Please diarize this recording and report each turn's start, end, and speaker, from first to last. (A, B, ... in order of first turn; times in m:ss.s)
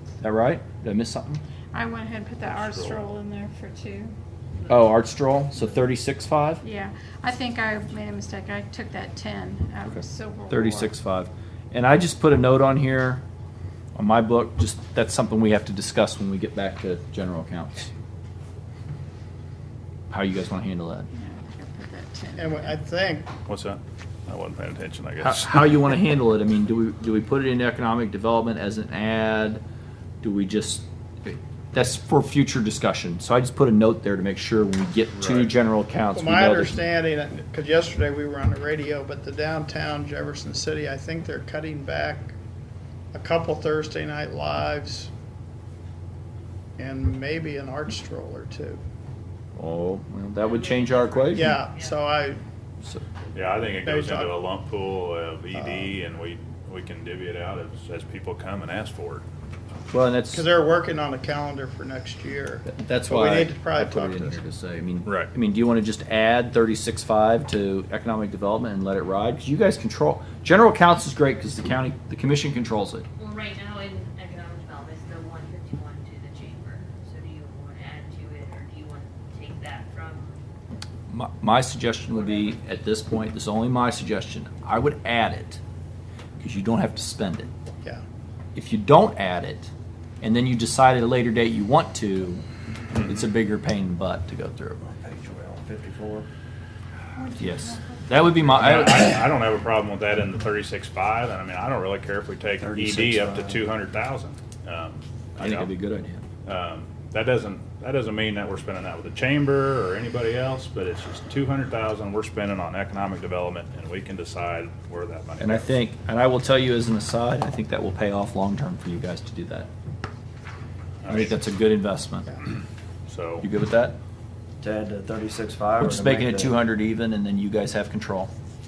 0:00.2-0:01.4 A
0:01.7-0:04.1 B
0:02.6-0:03.0 C
0:04.7-0:06.6 A
0:06.6-0:10.9 B
0:09.9-0:13.2 A
0:14.0-0:17.9 A
0:20.1-0:21.1 A
0:21.1-0:22.8 B
0:22.4-0:23.3 D
0:23.5-0:25.6 C
0:25.2-0:29.6 A
0:30.2-0:36.8 A
0:35.2-0:35.5 C
0:36.2-0:42.4 D
0:43.1-0:45.1 D
0:46.8-0:48.8 D
0:49.6-0:51.6 A
0:50.4-0:52.0 E
0:51.3-0:52.4 D
0:53.3-0:59.2 C
0:53.8-0:54.3 D
0:55.6-0:55.9 D
0:59.9-1:00.4 A
1:00.3-1:04.4 D
1:02.6-1:13.1 A
1:13.2-1:20.4 E
1:21.1-1:25.6 A
1:26.4-1:27.5 A
1:28.6-1:29.7 A
1:30.2-1:32.4 A
1:33.0-1:34.9 A
1:34.9-1:36.3 F
1:37.2-1:38.5 B
1:37.4-1:39.3 A
1:38.4-1:45.7 C
1:42.6-1:43.6 F
1:45.4-1:46.2 A
1:46.4-1:55.8 C
1:55.4-1:59.7 A
2:01.0-2:01.4 C
2:01.1-2:02.4 A
2:03.1-2:03.4 C
2:03.4-2:04.0 A
2:04.6-2:06.6 F
2:05.8-2:08.3 A